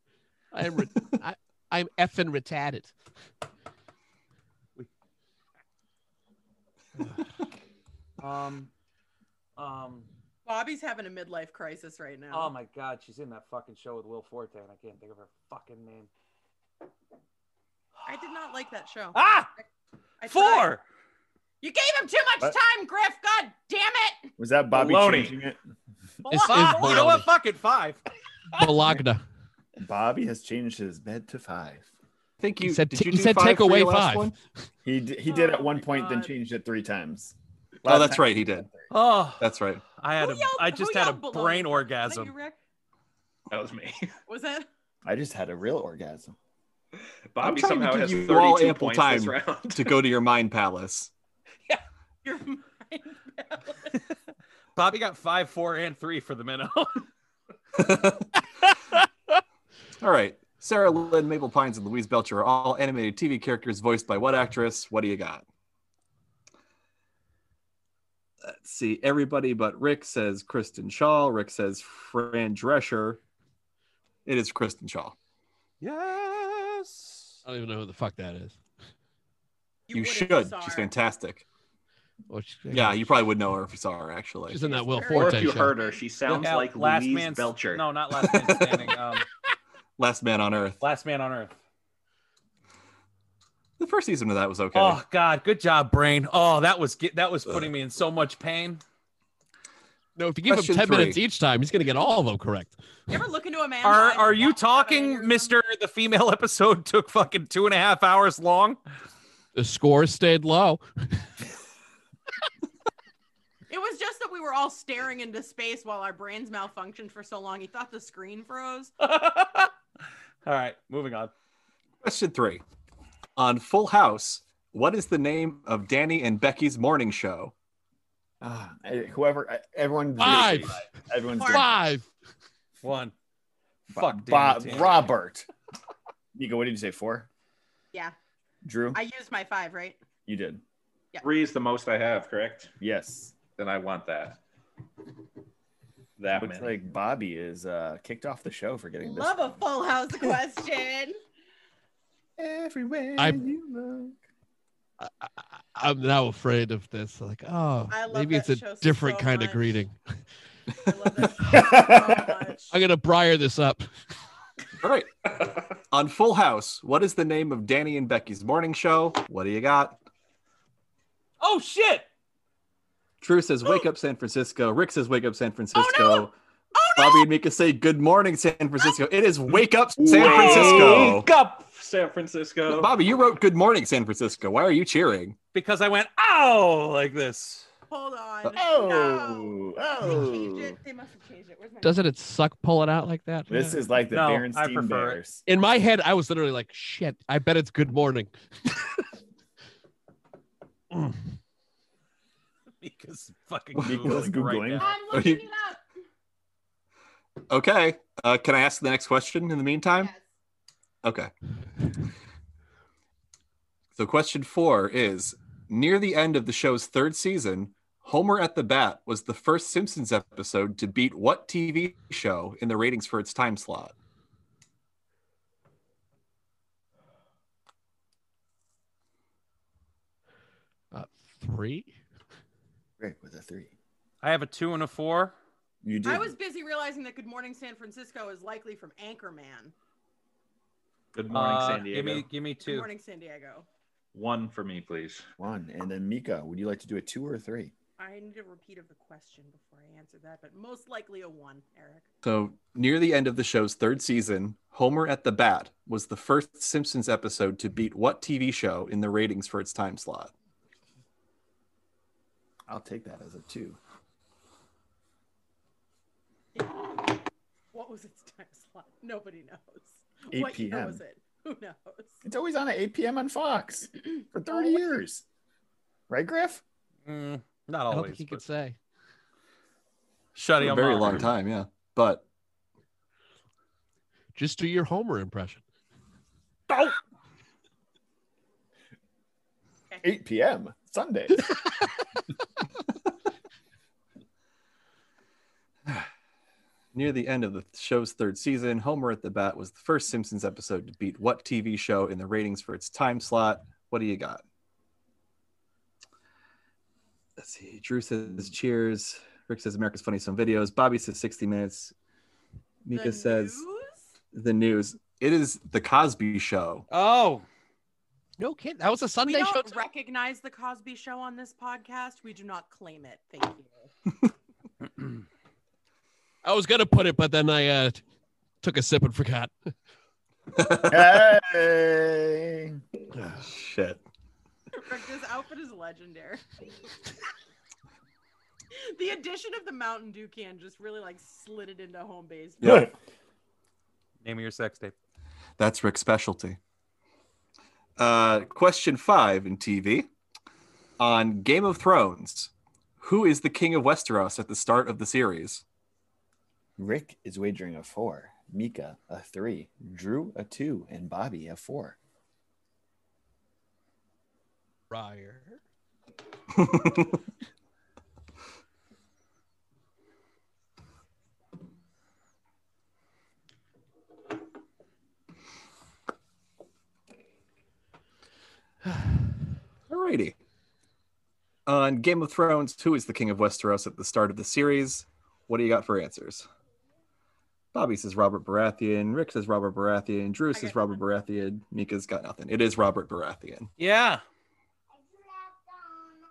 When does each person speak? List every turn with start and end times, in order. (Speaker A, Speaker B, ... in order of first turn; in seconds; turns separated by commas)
Speaker A: 0.5-2.9, Speaker B: 8.2-8.7, Speaker B: 9.6-10.1, Speaker C: 10.4-12.5, Speaker B: 12.3-16.1, Speaker C: 18.1-19.6, Speaker B: 19.1-19.5, Speaker C: 20.2-20.7, Speaker B: 20.3-20.8, Speaker C: 21.6-24.3, Speaker D: 24.4-25.6, Speaker E: 24.7-25.4, Speaker C: 26.3-27.1, Speaker A: 26.3-27.3, Speaker B: 26.3-28.0, Speaker A: 28.5-29.2, Speaker D: 29.8-31.9, Speaker F: 32.4-34.3, Speaker A: 32.6-34.3, Speaker D: 34.8-38.9, Speaker C: 35.3-36.3, Speaker F: 37.9-38.7, Speaker B: 38.9-42.3, Speaker F: 39.4-39.8, Speaker C: 40.2-42.6, Speaker E: 43.5-44.1, Speaker C: 44.3-44.7, Speaker D: 45.0-46.4, Speaker E: 47.3-50.0, Speaker F: 47.4-51.1, Speaker C: 52.2-54.0, Speaker B: 54.8-57.0, Speaker F: 57.8-58.3, Speaker F: 60.0-65.4, Speaker F: 68.5-73.2, Speaker F: 74.2-75.1, Speaker B: 75.8-77.4, Speaker A: 77.4-78.6, Speaker C: 79.9-80.9, Speaker F: 79.9-81.4, Speaker A: 82.3-83.1, Speaker F: 82.7-84.7, Speaker A: 84.5-85.7, Speaker C: 84.6-86.0, Speaker E: 85.1-87.9, Speaker B: 86.2-89.3, Speaker F: 90.0-90.8, Speaker B: 90.8-91.5, Speaker F: 93.8-95.0, Speaker B: 94.7-98.8, Speaker A: 100.2-102.8, Speaker F: 100.5-101.2, Speaker C: 103.1-105.5, Speaker B: 103.8-108.8, Speaker A: 109.5-110.8, Speaker C: 113.7-118.9, Speaker B: 119.0-119.7, Speaker B: 120.4-121.3, Speaker F: 122.0-122.6, Speaker F: 123.4-127.5, Speaker D: 128.4-131.7, Speaker A: 130.2-130.9, Speaker C: 131.4-131.7, Speaker A: 131.4-132.1, Speaker B: 132.8-133.1, Speaker B: 133.9-135.1, Speaker D: 133.9-135.5, Speaker D: 136.3-137.3, Speaker D: 138.6-139.0, Speaker C: 138.9-140.0, Speaker D: 140.2-140.6, Speaker E: 141.2-142.7, Speaker D: 142.8-143.3, Speaker E: 143.5-144.4, Speaker E: 146.2-146.7, Speaker D: 146.4-149.6, Speaker C: 149.0-151.2, Speaker D: 152.4-154.2, Speaker A: 153.2-153.5, Speaker A: 155.0-160.2, Speaker C: 157.9-159.8, Speaker C: 160.8-162.7, Speaker D: 161.5-162.2, Speaker A: 162.7-163.9, Speaker F: 164.8-170.0, Speaker B: 171.4-172.1, Speaker F: 173.2-176.3, Speaker C: 175.7-177.3, Speaker F: 176.9-181.3, Speaker E: 180.0-182.9, Speaker B: 180.2-181.1, Speaker F: 182.7-185.4, Speaker B: 185.5-187.7, Speaker C: 187.9-192.1, Speaker D: 188.5-190.8, Speaker A: 191.8-193.8, Speaker D: 193.5-195.4, Speaker B: 194.1-195.2, Speaker A: 195.4-198.8, Speaker B: 202.8-205.0, Speaker D: 203.8-204.9, Speaker C: 204.8-205.8, Speaker F: 205.1-205.4, Speaker F: 207.5-210.1, Speaker C: 209.9-210.2, Speaker F: 211.0-211.3, Speaker F: 213.9-223.9, Speaker A: 230.9-231.9, Speaker D: 233.0-233.7, Speaker B: 234.2-235.3, Speaker D: 235.8-236.3, Speaker C: 236.0-239.7, Speaker E: 241.1-242.3, Speaker B: 241.3-242.9, Speaker C: 242.6-243.7, Speaker E: 244.1-245.2, Speaker D: 245.4-247.7, Speaker C: 248.0-252.1, Speaker F: 252.2-260.3, Speaker D: 262.7-263.8, Speaker C: 266.6-266.9, Speaker C: 267.7-272.2, Speaker D: 270.3-271.0, Speaker D: 272.2-275.2, Speaker D: 276.1-276.6, Speaker B: 277.1-278.4, Speaker A: 277.9-278.8, Speaker B: 280.3-281.3, Speaker F: 280.6-282.2, Speaker A: 284.3-285.6, Speaker D: 290.0-291.5, Speaker F: 296.9-304.4, Speaker F: 307.4-311.9, Speaker F: 312.8-313.6, Speaker C: 312.9-314.0, Speaker F: 314.3-316.9, Speaker B: 316.9-317.4, Speaker A: 318.4-319.8, Speaker C: 319.2-323.9, Speaker A: 326.4-328.0, Speaker A: 328.6-329.5, Speaker F: 330.5-331.2, Speaker D: 330.9-332.8, Speaker A: 333.1-333.4, Speaker F: 333.4-334.0, Speaker C: 334.7-336.4, Speaker C: 338.8-342.9, Speaker F: 342.6-342.9, Speaker B: 344.2-344.9, Speaker F: 345.6-346.6, Speaker F: 348.0-350.1, Speaker F: 351.0-355.6, Speaker D: 356.8-362.0, Speaker A: 364.9-365.6, Speaker F: 366.6-367.0, Speaker F: 379.9-380.3, Speaker F: 381.6-386.5, Speaker F: 387.7-393.7, Speaker C: 390.5-391.0, Speaker B: 393.8-394.2